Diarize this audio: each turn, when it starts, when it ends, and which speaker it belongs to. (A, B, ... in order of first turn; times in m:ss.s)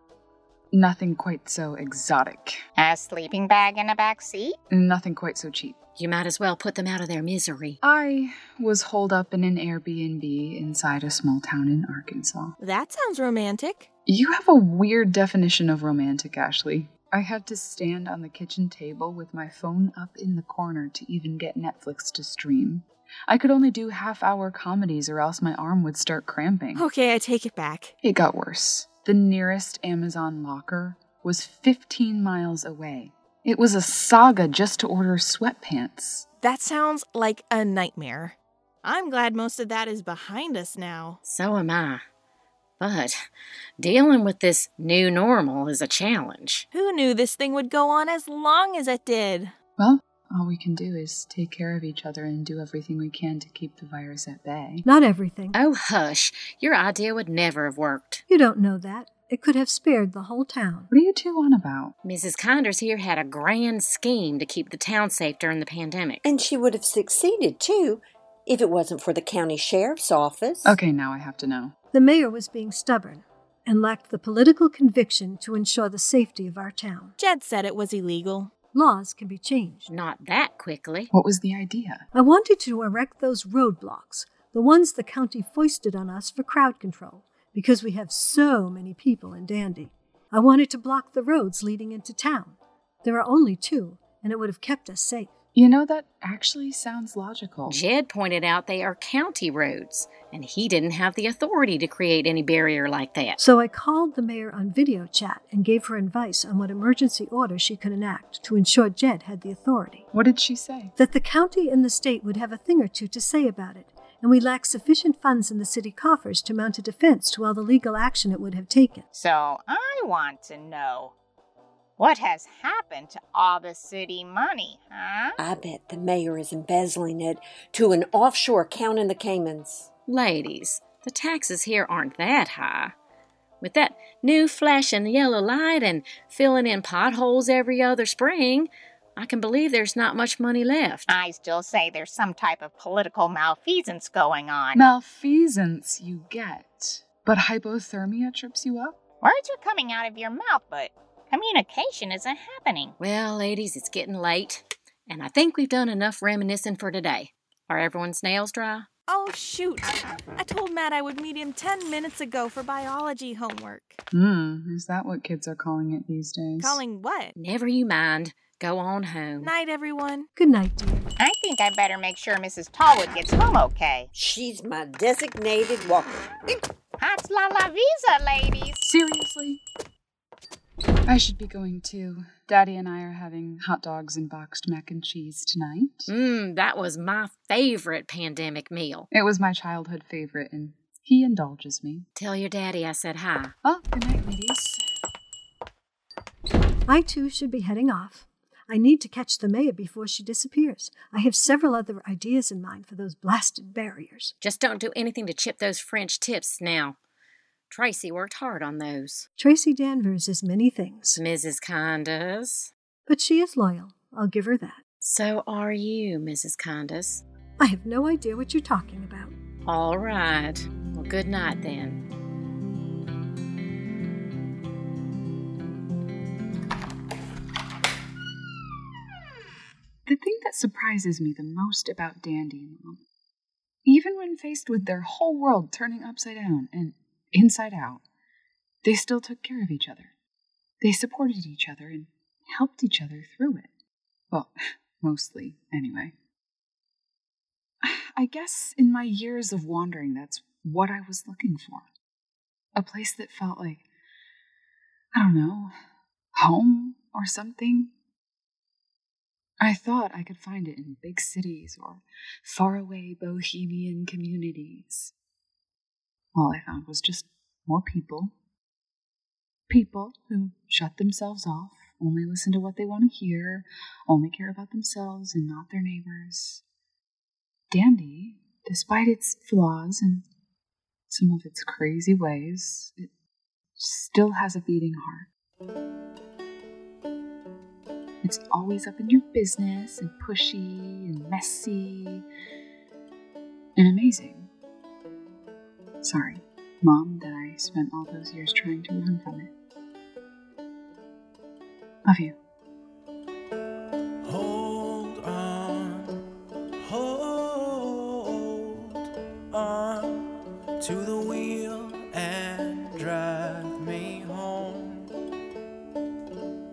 0:00.7-0:02.6 A
0:02.8-0:04.6 B
0:04.7-0:05.8 A
0:06.0-0:07.8 C
0:07.8-0:12.6 A
0:12.6-0:13.9 D
0:14.1-0:26.9 A
0:26.8-0:27.9 D
0:28.0-0:36.3 A
0:36.4-0:41.2 D
0:41.2-0:42.0 C
0:42.8-0:43.2 C
0:43.8-0:46.6 C
0:46.7-0:49.5 D
0:49.8-0:54.8 A
0:54.8-0:55.6 E
0:55.5-0:58.2 C
0:58.3-1:00.9 E
1:00.9-1:01.9 A
1:02.0-1:06.3 C
1:06.2-1:10.8 F
1:10.6-1:11.7 A
1:11.9-1:17.1 E
1:17.2-1:18.5 D
1:18.7-1:19.9 E
1:19.9-1:21.1 C
1:21.1-1:22.1 A
1:22.1-1:35.3 E
1:35.6-1:37.8 A
1:37.7-1:43.4 C
1:43.4-1:50.1 E
1:50.1-1:50.9 A
1:51.0-1:59.1 E
1:59.1-2:01.1 B
2:02.0-2:05.4 B
2:05.4-2:09.9 F
2:10.1-2:12.9 C
2:13.6-2:21.1 C
2:21.1-2:24.8 B
2:24.8-2:29.0 A
2:29.2-2:32.9 B
2:33.0-2:38.9 C
2:39.1-2:44.0 D
2:44.1-2:46.8 A
2:46.6-2:47.4 D
2:47.4-2:49.5 C
2:49.4-2:50.3 D
2:50.4-2:51.1 E
2:51.2-2:54.1 B
2:54.1-2:56.6 F
2:57.0-2:58.8 B
2:58.8-2:59.6 A
3:01.1-3:06.1 A
3:06.1-3:09.1 C
3:09.1-3:12.1 A
3:12.2-3:13.5 C
3:13.6-3:14.8 A
3:16.9-3:24.3 E
3:24.4-3:27.0 C
3:27.7-3:29.3 C
3:29.4-3:31.2 E
3:31.1-3:32.7 C
3:33.1-3:34.8 E
3:35.0-3:37.2 C
3:37.6-3:39.4 E
3:39.6-3:42.0 C
3:50.1-3:53.0 A
3:53.8-3:58.0 A
3:58.8-4:00.1 A
4:00.8-4:03.7 A
4:04.3-4:06.1 A
4:07.8-4:11.9 A
4:12.8-4:13.8 A
4:15.1-4:15.7 A
4:16.4-4:17.9 A
4:19.6-4:25.1 A
4:26.4-4:28.3 A
4:29.7-4:36.6 A
4:37.7-4:40.3 A
4:41.1-4:43.1 A
4:43.8-4:45.3 A
4:48.2-4:52.2 A
4:53.8-4:54.5 A
4:56.0-4:59.5 A
5:02.0-5:02.4 A
5:04.2-5:06.2 G
5:06.8-5:15.1 G